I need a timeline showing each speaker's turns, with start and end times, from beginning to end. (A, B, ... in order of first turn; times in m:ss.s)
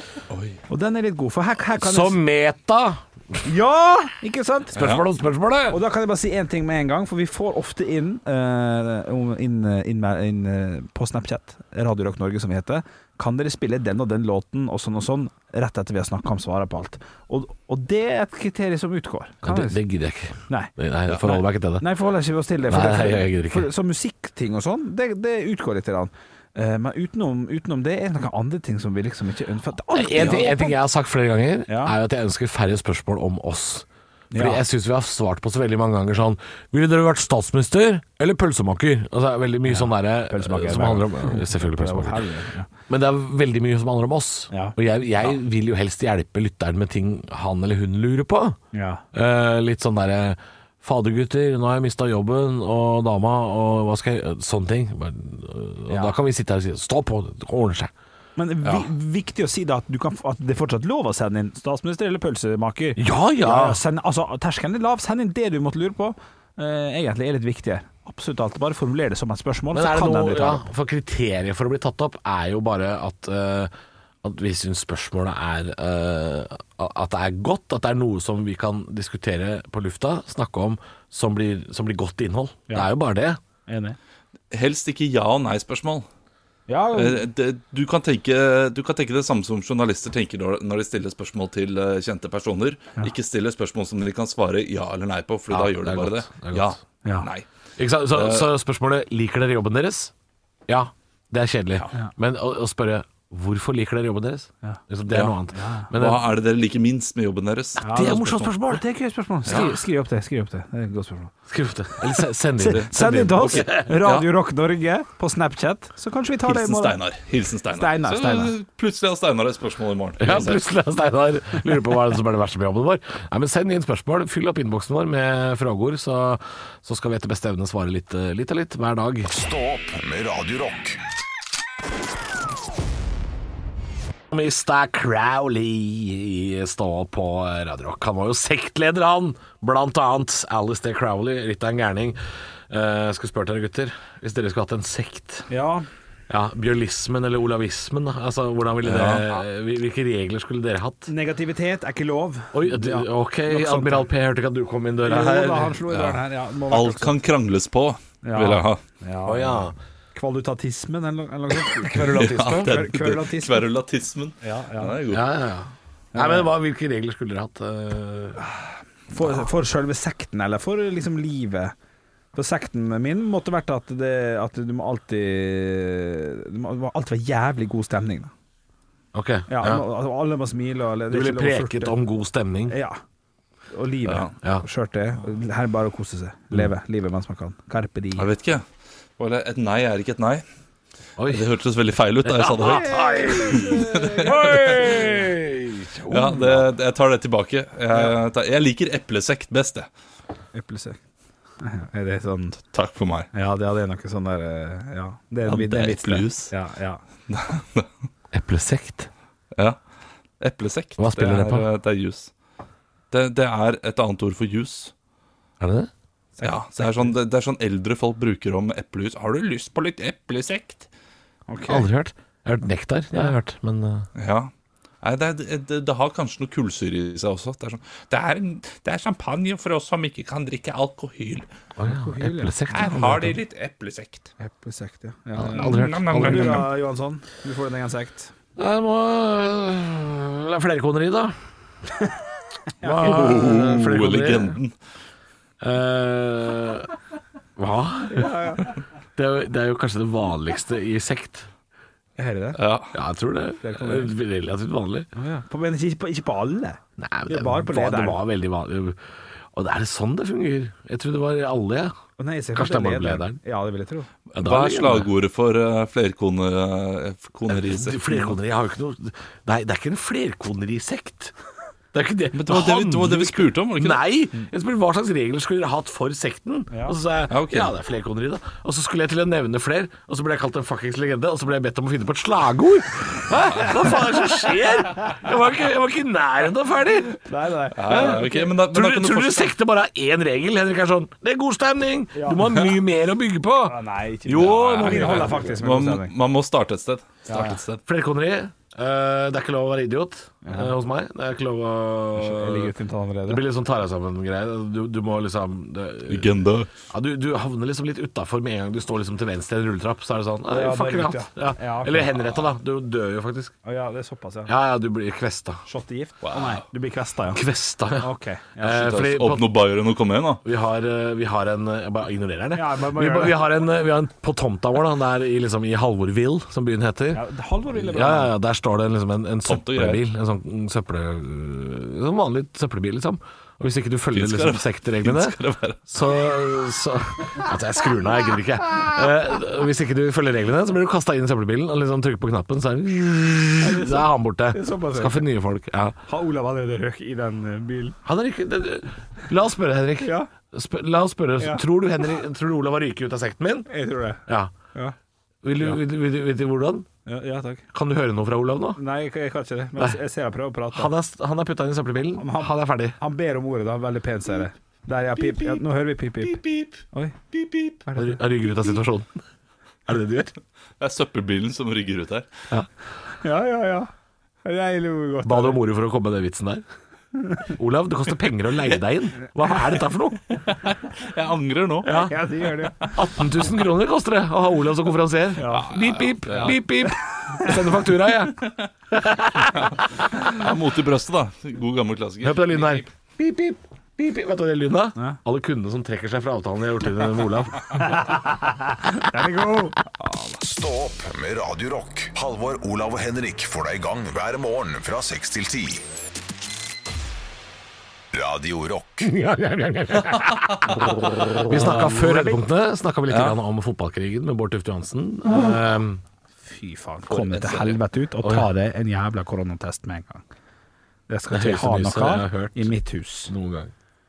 0:00.3-0:00.6 A
0:00.7-0:02.2 B
0:01.8-0:03.4 C
0:03.4-0:04.8 B
0:04.8-0:05.8 C
0:04.8-0:05.0 A
0:05.7-0:19.8 B
0:19.4-0:21.8 C
0:21.1-0:21.4 A
0:21.2-0:30.8 B
0:22.7-0:23.7 C
0:29.9-0:42.3 C
0:31.7-0:31.9 B
0:34.3-0:34.6 B
0:39.7-0:42.7 B
0:42.9-0:48.6 C
0:48.7-0:49.0 B
0:49.1-0:57.9 C
0:55.9-0:56.2 B
0:58.4-1:10.7 B
1:03.0-1:03.8 C
1:09.7-1:13.7 C
1:14.2-1:23.4 C
1:23.7-1:24.0 B
1:24.5-1:26.1 A
1:26.7-1:27.3 B
1:26.9-1:37.5 A
1:35.5-1:36.8 C
1:37.8-1:40.1 C
1:38.1-1:38.5 A
1:40.7-1:46.2 C
1:45.1-1:45.4 A
1:45.5-1:45.9 B
1:45.9-1:48.2 A
1:47.8-1:51.3 B
1:47.8-1:48.8 C
1:49.5-1:49.8 A
1:51.5-1:53.9 C
1:52.6-1:57.0 B
1:52.7-1:54.3 A
1:56.4-2:00.6 A
1:57.7-1:58.5 B
2:00.2-2:09.3 C
2:09.3-2:11.0 D
2:14.3-2:22.2 C
2:22.7-2:25.5 C
2:25.5-2:25.9 B
2:26.3-2:31.1 C
2:28.8-2:29.4 A
2:31.1-2:34.1 B
2:32.5-2:35.8 C
2:35.0-2:37.2 B
2:35.9-2:38.8 A
2:38.2-2:43.7 B
2:39.2-2:39.8 C
2:41.6-2:42.9 C
2:42.1-2:45.3 A
2:44.4-2:45.0 B
2:45.1-2:48.4 C
2:46.1-2:46.5 B
2:49.1-2:51.7 B
2:52.3-2:58.3 B
2:59.1-2:59.8 C
2:59.5-3:02.0 B
3:01.1-3:02.8 C
3:02.7-3:03.0 B
3:03.7-3:08.3 B
3:08.2-3:08.6 A
3:09.2-3:10.4 A
3:11.2-3:11.5 C
3:11.3-3:14.8 A
3:12.2-3:16.7 C
3:12.6-3:15.3 B
3:16.1-3:19.9 A
3:20.5-3:21.0 B
3:21.6-3:22.6 B
3:22.7-3:23.3 A
3:23.3-3:27.0 B
3:25.5-3:26.5 A
3:27.3-3:27.9 A
3:28.3-3:29.1 C
3:30.4-3:32.3 A
3:31.0-3:31.7 C
3:33.1-3:34.9 A
3:35.6-3:35.9 C
3:36.4-3:37.1 B
3:36.4-3:40.9 A
3:41.5-3:41.9 B
3:41.7-3:44.1 C
3:44.2-3:44.5 A
3:45.0-3:51.5 A
3:51.8-3:53.4 C
3:51.9-3:52.6 B
3:52.7-3:54.3 A
3:54.4-3:58.3 B
3:55.3-3:56.7 C
3:55.4-3:56.7 A
3:58.6-4:01.4 C
4:02.8-4:03.6 B
4:02.8-4:04.6 C
4:03.0-4:04.7 A
4:05.6-4:06.9 C
4:07.6-4:11.5 C
4:08.1-4:08.7 B
4:12.2-4:12.6 B
4:12.6-4:12.9 A
4:12.9-4:15.1 C
4:13.6-4:14.1 B
4:15.2-4:18.2 B
4:17.0-4:19.0 C
4:19.5-4:21.9 C
4:22.2-4:24.1 B
4:22.5-4:23.4 C
4:24.3-4:28.0 A
4:24.4-4:25.1 C
4:27.5-4:31.4 C
4:31.9-4:47.2 C
4:32.3-4:34.5 A
4:36.7-4:37.0 B
4:37.3-4:37.7 A
4:47.2-4:48.5 B
4:47.8-4:49.5 A
4:47.9-4:55.6 C
4:52.1-4:52.5 B
4:53.7-4:56.1 B
4:54.4-4:57.8 A
4:57.3-4:57.6 B
4:57.9-5:02.7 C
5:00.4-5:00.7 B
5:02.2-5:03.4 B
5:03.3-5:06.4 C
5:06.1-5:06.7 A
5:06.9-5:13.5 C
5:10.5-5:12.4 B
5:13.6-5:14.5 B
5:14.5-5:15.6 C
5:15.7-5:17.4 B
5:16.2-5:16.6 A
5:17.3-5:19.5 C
5:18.0-5:18.9 B
5:18.7-5:20.4 A
5:20.4-5:35.4 C
5:22.5-5:23.4 B
5:27.1-5:28.3 B
5:29.4-5:30.0 A
5:34.1-5:35.8 A
5:35.9-5:46.0 C
5:43.6-5:45.2 B
5:46.1-5:48.0 B
5:48.0-5:53.7 C
5:50.0-5:50.3 B
5:51.4-5:51.6 B
5:53.7-5:55.0 B
5:55.4-5:56.9 C
5:57.1-5:57.6 B
5:57.7-5:58.8 C
5:58.8-6:00.9 B
6:00.7-6:03.0 C
6:02.2-6:06.4 B
6:06.9-6:07.2 B
6:07.8-6:08.2 B
6:08.0-6:09.2 C
6:09.9-6:10.4 C
6:10.8-6:12.3 A
6:13.2-6:13.9 B
6:14.4-6:15.6 B
6:15.2-6:16.6 C
6:17.5-6:20.4 C
6:20.5-6:21.9 A
6:21.8-6:22.2 C
6:21.9-6:23.1 B
6:22.9-6:29.8 C
6:25.4-6:25.8 B
6:25.5-6:26.6 A
6:26.4-6:27.5 B
6:29.6-6:32.9 A
6:32.2-6:38.0 C
6:37.7-6:40.4 B
6:40.4-6:45.8 D
6:48.1-6:49.1 D
6:49.0-6:56.0 C
6:50.3-6:51.4 A
6:51.5-6:52.4 B
6:53.1-6:53.4 A
6:56.4-7:00.2 B
6:57.1-6:57.8 A
6:58.2-6:58.5 C
7:01.1-7:03.3 B
7:01.3-7:02.8 C
7:03.3-7:03.7 C